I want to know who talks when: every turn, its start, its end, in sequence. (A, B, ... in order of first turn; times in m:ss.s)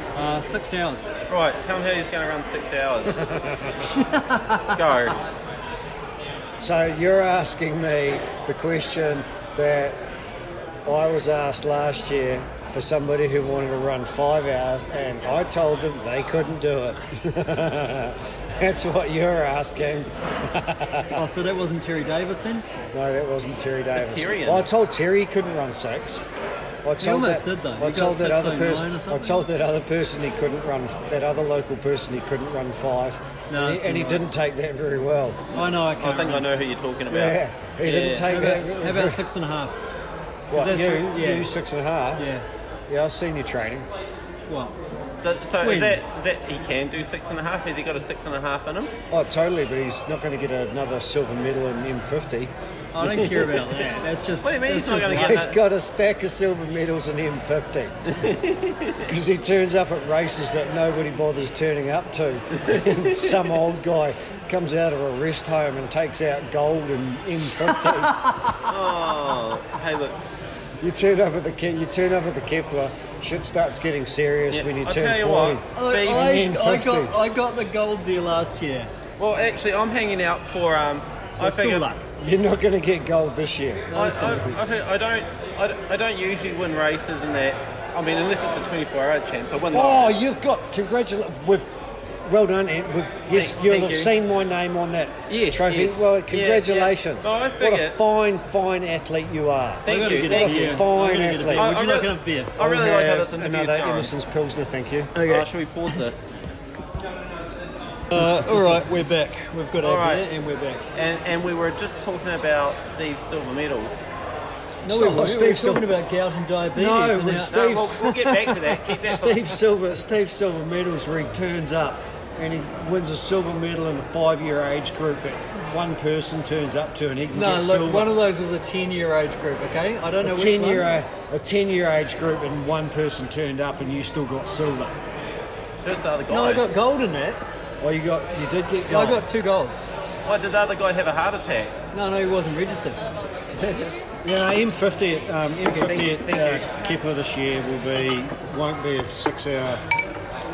0:00.1-0:01.1 A
0:01.3-0:03.3 B
0:03.1-0:03.9 C
0:03.9-0:04.8 A
0:04.6-0:05.2 B
0:06.6-0:10.0 C
0:10.8-0:21.2 C
0:21.1-0:22.6 A
0:22.9-0:26.3 C
0:24.0-0:24.7 B
0:26.8-0:35.6 C
0:27.0-0:29.4 A
0:33.5-0:34.2 A
0:35.5-0:36.9 A
0:36.0-0:38.4 B
0:37.1-0:39.2 C
0:38.2-0:39.8 A
0:40.5-0:42.3 C
0:40.5-0:41.5 A
0:42.2-0:42.4 A
0:42.9-0:43.9 C
0:44.5-0:44.8 A
0:45.2-0:48.9 B
0:45.6-0:46.0 A
0:49.1-0:52.5 C
0:52.9-0:55.4 A
0:53.0-0:53.7 B
0:54.4-0:55.6 B
0:55.1-0:57.9 C
0:58.1-0:59.0 B
0:59.0-1:08.3 C
1:02.6-1:03.4 B
1:08.0-1:08.7 A
1:08.6-1:10.2 B
1:10.8-1:17.1 C
1:14.5-1:16.4 B
1:15.8-1:18.9 A
1:19.2-1:21.9 B
1:21.4-1:22.1 A
1:22.2-1:24.6 C
1:23.9-1:24.5 A
1:23.9-1:30.2 B
1:29.7-1:41.8 C
1:33.3-1:34.1 B
1:35.3-1:38.0 B
1:39.8-1:40.8 B
1:39.9-1:42.5 A
1:41.5-1:44.1 B
1:42.6-1:45.2 C
1:45.1-1:46.0 A
1:45.2-1:46.3 B
1:48.1-1:50.9 A
1:48.1-1:48.8 C
1:49.8-1:50.3 B
1:50.9-1:54.0 B
1:54.8-1:55.9 C
1:54.8-1:59.0 A
1:56.7-1:58.2 C
1:57.5-1:59.6 B
1:59.0-2:08.2 C
2:07.3-2:10.9 A
2:10.2-2:15.0 C
2:15.8-2:16.6 B
2:16.3-2:17.4 A
2:17.8-2:19.3 C
2:18.9-2:19.9 A
2:20.2-2:21.8 B
2:21.9-2:23.0 A
2:23.6-2:23.9 B
2:24.2-2:29.9 C
2:25.6-2:26.8 B